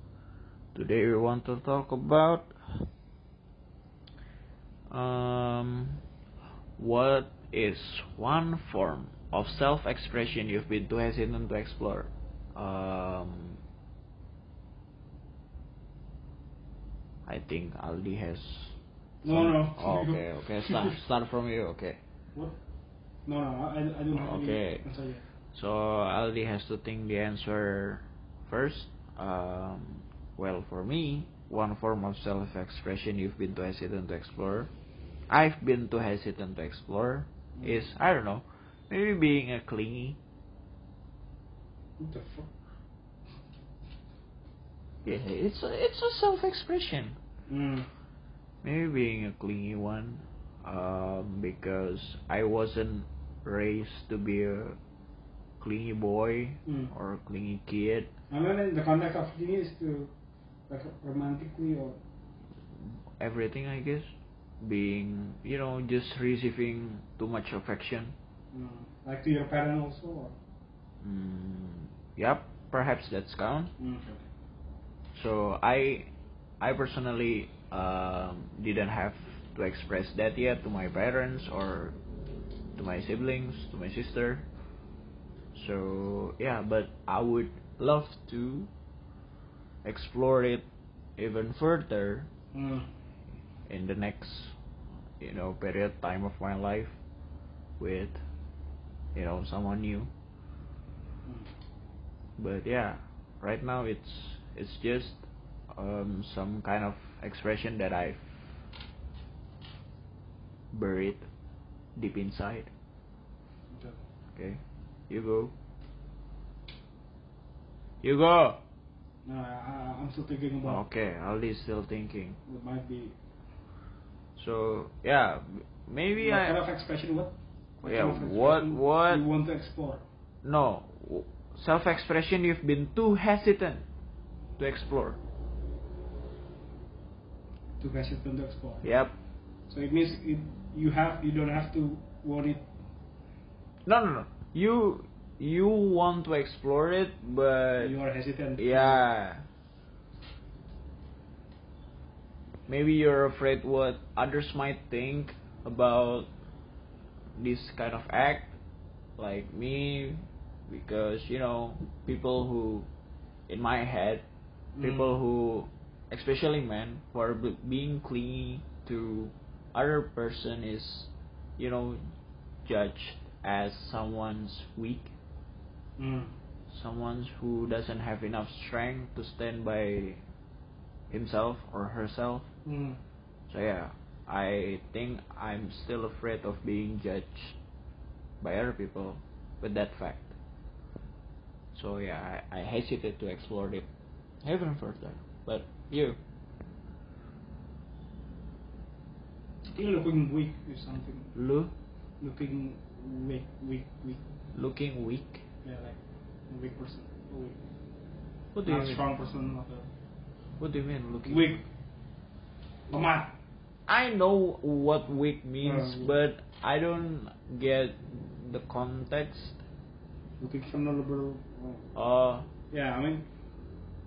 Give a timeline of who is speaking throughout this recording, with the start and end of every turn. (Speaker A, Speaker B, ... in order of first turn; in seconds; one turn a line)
Speaker A: 0.7-2.5
Speaker A: 4.9-6.0
Speaker A: 6.8-13.6
Speaker A: 17.3-18.8
Speaker B: 19.2-21.0
Speaker A: 19.3-22.0
Speaker B: 23.3-25.2
Speaker A: 24.1-24.9
Speaker A: 25.5-34.7
Speaker A: 35.3-40.2
Speaker B: 37.6-37.8
Speaker B: 42.0-42.5
Speaker A: 45.0-47.2
Speaker B: 47.5-47.9
Speaker A: 48.6-54.8
Speaker A: 55.6-58.1
Speaker B: 56.7-56.9
Speaker B: 58.3-60.1
Speaker B: 60.7-62.0
Speaker A: 63.2-64.1
Speaker A: 64.6-68.1
Speaker B: 68.5-70.3
Speaker A: 71.0-73.7
Speaker B: 73.8-74.2
Speaker A: 75.1-76.1
Speaker A: 76.6-81.9
Speaker A: 82.8-84.4
Speaker A: 85.5-88.7
Speaker A: 89.8-90.6
Speaker A: 91.2-92.3
Speaker B: 92.5-92.9
Speaker A: 93.7-94.5
Speaker A: 95.2-96.9
Speaker A: 97.8-98.2
Speaker A: 99.1-100.1
Speaker B: 101.2-101.5
Speaker A: 102.4-108.3
Speaker A: 110.7-111.3
Speaker A: 112.0-112.7
Speaker B: 113.7-114.0
Speaker A: 114.3-115.5
Speaker A: 118.0-118.6
Speaker B: 119.2-120.8
Speaker A: 120.6-122.4
Speaker B: 122.5-123.1
Speaker A: 124.3-126.6
Speaker B: 126.2-130.0
Speaker A: 127.8-129.2
Speaker A: 130.4-133.8
Speaker A: 134.6-135.2
Speaker B: 137.8-138.9
Speaker A: 138.8-139.1
Speaker B: 139.7-142.6
Speaker A: 143.8-148.0
Speaker B: 147.8-149.1
Speaker A: 148.6-149.4
Speaker A: 152.7-156.3
Speaker A: 157.4-158.6
Speaker A: 159.2-162.9
Speaker A: 163.5-164.2
Speaker B: 164.8-165.1
Speaker A: 164.8-172.0
Speaker A: 172.7-175.1
Speaker B: 176.0-176.3
Speaker A: 176.7-180.2
Speaker A: 181.1-182.5
Speaker B: 182.6-183.0
Speaker A: 183.5-187.6
Speaker A: 188.4-190.3
Speaker A: 191.7-193.8
Speaker A: 194.4-196.2
Speaker B: 199.7-201.3
Speaker A: 201.3-201.7
Speaker B: 202.2-204.2
Speaker A: 204.5-205.4
Speaker B: 205.6-207.6
Speaker A: 208.5-209.0
Speaker B: 208.6-209.9
Speaker A: 210.6-211.6
Speaker B: 211.2-211.6
Speaker B: 212.9-213.3
Speaker A: 213.9-219.6
Speaker B: 215.6-216.1
Speaker B: 220.4-221.9
Speaker A: 221.9-222.5
Speaker B: 222.7-223.3